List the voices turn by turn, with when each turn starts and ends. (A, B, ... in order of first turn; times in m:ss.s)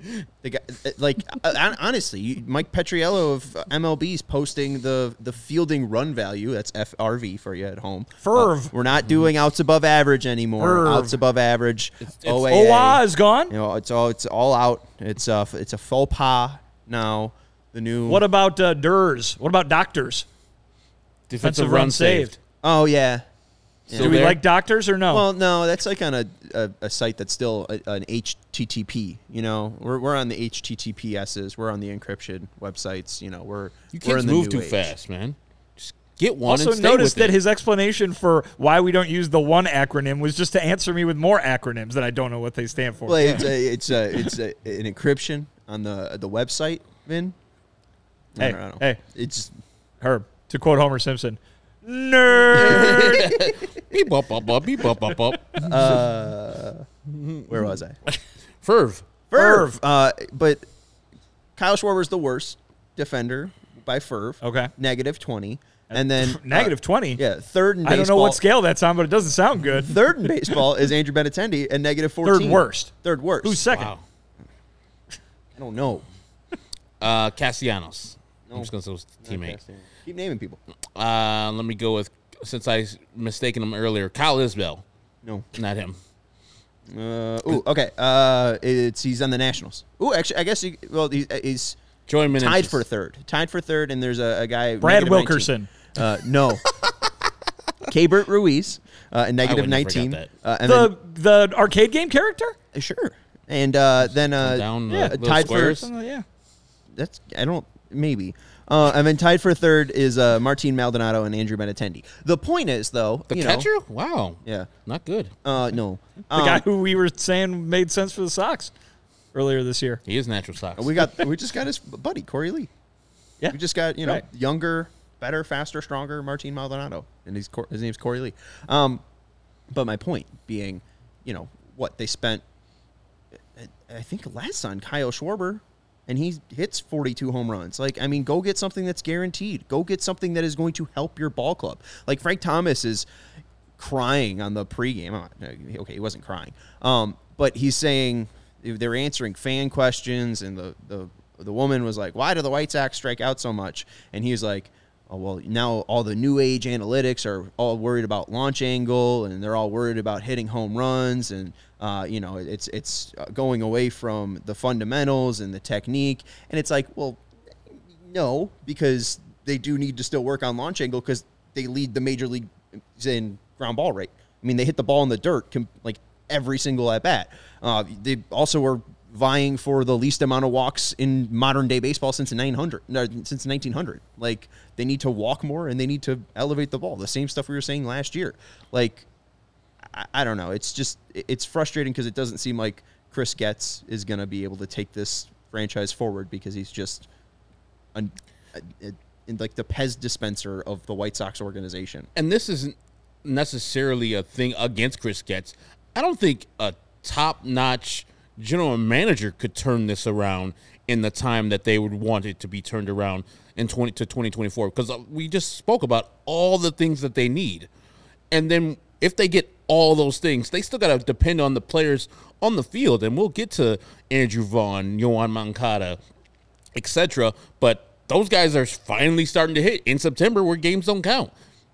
0:00.4-0:18.2 A
0:08.2-0:08.7 B
0:10.6-0:11.2 B
0:12.4-0:13.5 B
0:18.1-0:20.3 B
0:21.3-0:22.3 C
0:21.4-0:22.3 B
0:22.6-0:23.2 A
0:23.9-0:24.3 A
0:23.9-0:24.4 C
0:24.0-0:25.2 B
0:25.1-0:34.9 A
0:33.9-0:37.4 C
0:36.4-0:43.4 B
0:43.1-0:47.4 A
0:48.4-0:49.5 A
0:48.4-0:49.0 B
0:50.0-0:53.3 B
0:52.6-0:56.0 C
0:52.7-0:53.4 A
0:55.7-0:56.9 A
0:57.1-0:57.6 C
0:57.5-0:58.0 A
0:58.6-0:59.1 C
0:59.3-1:00.6 A
0:59.3-0:59.7 B
1:01.6-1:08.4 A
1:04.4-1:04.7 B
1:05.9-1:07.2 B
1:07.8-1:09.9 B
1:09.8-1:13.7 A
1:12.2-1:12.9 B
1:13.4-1:13.9 B
1:13.7-1:14.0 C
1:15.6-1:16.0 A
1:17.0-1:19.6 C
1:19.2-1:20.6 A
1:20.9-1:24.8 C
1:25.5-1:26.0 C
1:26.9-1:31.8 A
1:32.1-1:32.8 C
1:32.3-1:36.6 A
1:34.8-1:35.7 B
1:37.9-1:40.9 A
1:39.4-1:40.3 C
1:40.6-1:42.6 B
1:42.7-1:45.8 A
1:44.1-1:45.9 C
1:44.9-1:46.2 B
1:46.9-1:53.7 A
1:53.3-1:55.3 C
1:54.4-1:54.7 A
1:55.4-1:56.6 A
1:56.3-1:58.7 B
1:59.3-2:00.0 B
2:00.0-2:01.1 C
2:00.8-2:02.7 A
2:03.4-2:04.2 B
2:03.5-2:09.0 A
2:09.7-2:12.4 A
2:13.6-2:23.0 A
2:23.8-3:09.1 A
3:09.8-3:17.1 A
3:17.9-3:22.1 A
3:22.1-3:37.7 C
3:38.3-3:46.0 C
3:46.7-3:51.3 C